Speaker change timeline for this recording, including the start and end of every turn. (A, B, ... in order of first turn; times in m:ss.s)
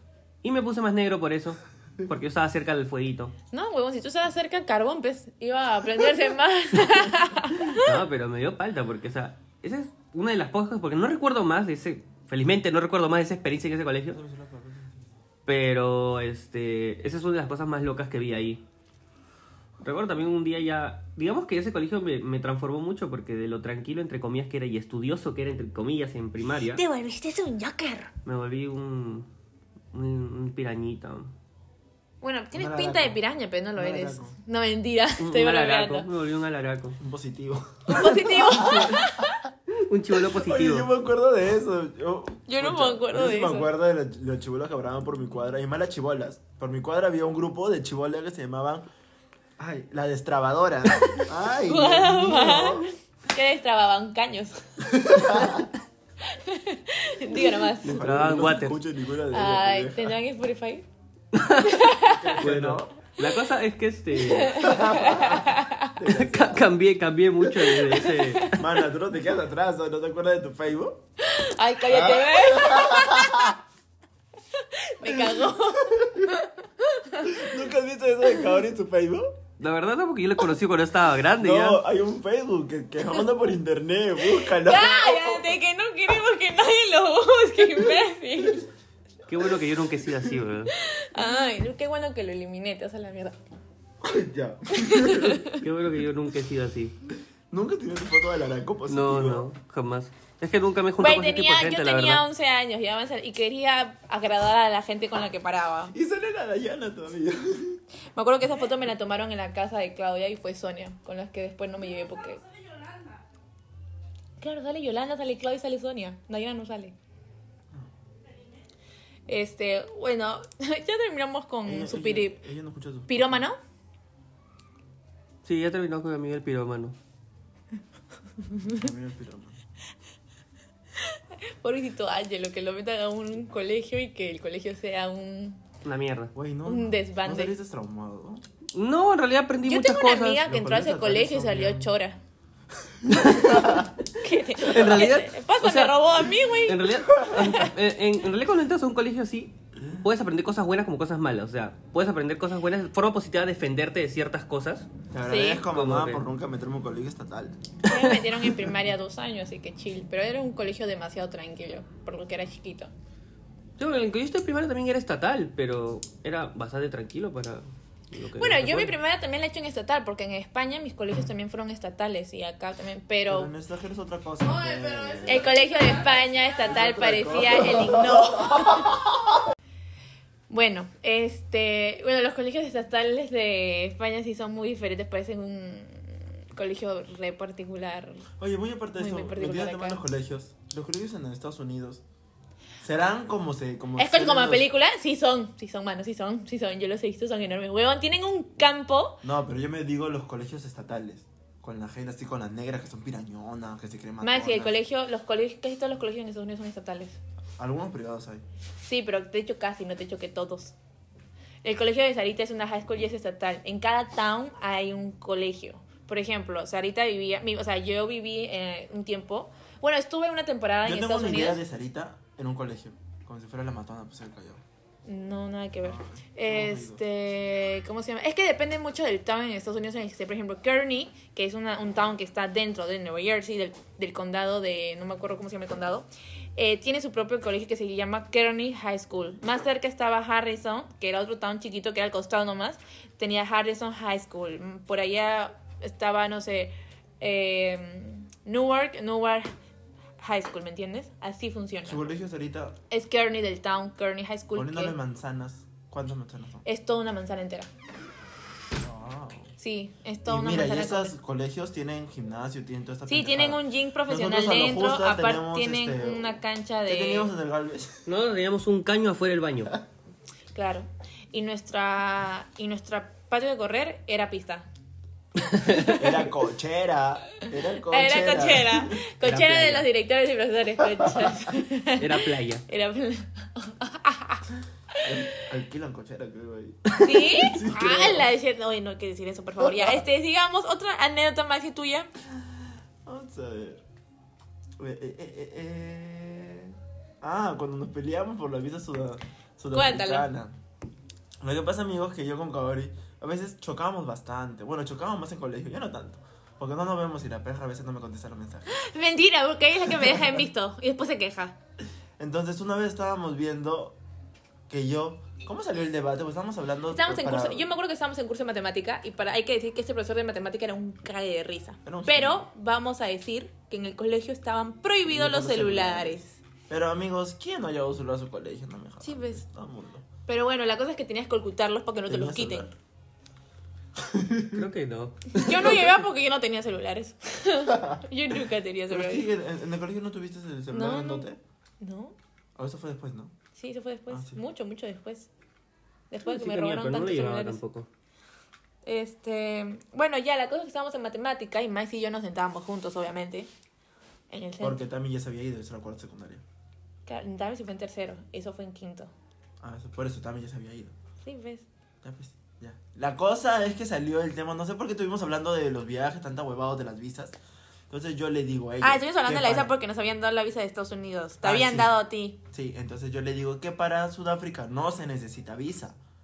0:00.4-0:03.3 A
0:03.5-0:07.9 B
0:07.8-0:14.2 A
0:14.1-0:15.0 C
0:15.4-0:18.6 A
0:19.8-0:26.8 A
0:26.8-0:28.1 B
0:28.2-0:29.3 A
0:29.9-0:31.3 A
0:32.2-0:36.1 B
0:32.5-0:33.2 C
0:33.8-0:34.4 C
0:35.2-0:37.0 A
0:37.0-0:39.1 C
0:37.9-0:39.4 B
0:38.1-0:39.0 A
0:39.7-0:40.9 A
0:40.2-0:48.9 C
0:42.5-0:43.7 B
0:49.6-0:52.9 C
0:51.6-0:55.6 B
0:54.8-0:55.7 C
0:56.2-0:58.0 B
0:57.4-1:00.2 C
0:57.8-0:58.8 A
0:59.3-1:00.8 B
1:01.3-1:01.8 A
1:01.6-1:02.4 B
1:02.0-1:02.9 C
1:02.4-1:04.7 A
1:04.2-1:05.9 B
1:04.6-1:06.7 C
1:06.0-1:08.6 A
1:07.6-1:08.6 B
1:08.5-1:11.0 C
1:11.2-1:13.6 B
1:11.9-1:13.6 C
1:14.6-1:17.4 B
1:15.1-1:16.3 C
1:17.2-1:19.4 C
1:19.6-1:21.8 A
1:21.4-1:25.6 C
1:24.4-1:28.6 B
1:29.3-1:30.7 A
1:30.7-1:33.4 B
1:34.0-1:35.4 C
1:34.7-1:35.6 B
1:35.5-1:37.0 A
1:37.5-1:39.5 C
1:38.9-1:42.2 A
1:41.0-1:45.9 B
1:45.9-1:47.8 C
1:48.1-1:52.4 B
1:54.4-1:57.0 B
1:59.3-2:02.4 B
2:01.6-2:03.4 C
2:03.1-2:03.6 B
2:05.4-2:07.0 A
2:08.7-2:09.6 C
2:11.0-2:15.6 B
2:15.8-2:16.3 A
2:16.3-2:18.4 C
2:16.6-2:17.5 B
2:18.7-2:20.4 A
2:19.6-2:22.2 B
2:20.4-2:21.9 C
2:23.0-2:23.9 C
2:23.1-2:23.9 A
2:24.1-2:27.7 B
2:24.6-2:26.0 A
2:26.5-2:34.9 A
2:35.1-2:38.8 C
2:35.2-2:35.6 B
2:35.7-2:36.2 A
2:37.8-2:42.9 B
2:43.8-2:49.0 A
2:48.4-2:53.5 B
2:53.3-2:55.9 C
2:55.2-2:59.0 B
2:56.6-2:59.1 C
3:00.5-3:08.3 B
3:08.4-3:12.0 C
3:09.0-3:10.0 B
3:12.8-3:14.7 C
3:14.0-3:19.2 B
3:19.2-3:24.8 C
3:24.2-3:27.2 B
3:27.6-3:28.4 C
3:28.8-3:30.7 B
3:31.6-3:41.6 B
3:40.8-3:44.6 C
3:45.0-4:09.5 B
3:45.8-3:47.0 C
4:10.2-4:12.1 B
4:11.8-4:12.8 C
4:12.9-4:15.0 B
4:14.5-4:16.6 C
4:16.6-4:17.7 B
4:18.8-4:19.5 C
4:19.6-4:21.2 B
4:20.2-4:28.1 C
4:23.1-4:27.3 B
4:28.0-4:29.8 A
4:30.5-4:34.7 B
4:35.5-4:35.9 A
4:35.6-4:36.1 B
4:35.9-4:39.0 C
4:37.9-4:45.1 B
4:39.2-4:39.9 A
4:42.0-4:42.6 A
4:45.0-4:48.3 C
4:46.9-4:52.1 B
4:52.4-4:53.8 C
4:54.8-5:00.6 C
4:59.7-5:00.3 B
5:01.4-5:08.7 C
5:08.7-5:11.6 B
5:10.0-5:10.4 C
5:12.2-5:14.0 C
5:14.7-5:17.7 C
5:16.9-5:26.4 B
5:21.8-5:22.4 C
5:25.0-5:30.0 C
5:29.0-5:29.4 B
5:30.2-5:32.7 B
5:32.1-5:32.7 C
5:34.0-5:34.6 C
5:34.5-5:35.9 A
5:35.4-5:39.3 B
5:37.7-5:38.0 C
5:38.9-5:41.4 C
5:40.7-5:41.3 B
5:41.8-5:42.2 B
5:42.6-5:43.3 C
5:43.6-5:45.3 B
5:44.1-5:44.4 C
5:46.1-5:47.6 B
5:46.2-5:47.9 A
5:48.8-5:53.5 B
5:54.3-5:54.8 B
5:54.6-5:56.4 C
5:57.0-5:59.1 B
5:59.6-6:01.0 C
6:01.2-6:01.7 B
6:02.0-6:07.4 C
6:07.9-6:09.7 C
6:08.8-6:12.4 B
6:11.4-6:11.9 C
6:12.5-6:16.0 C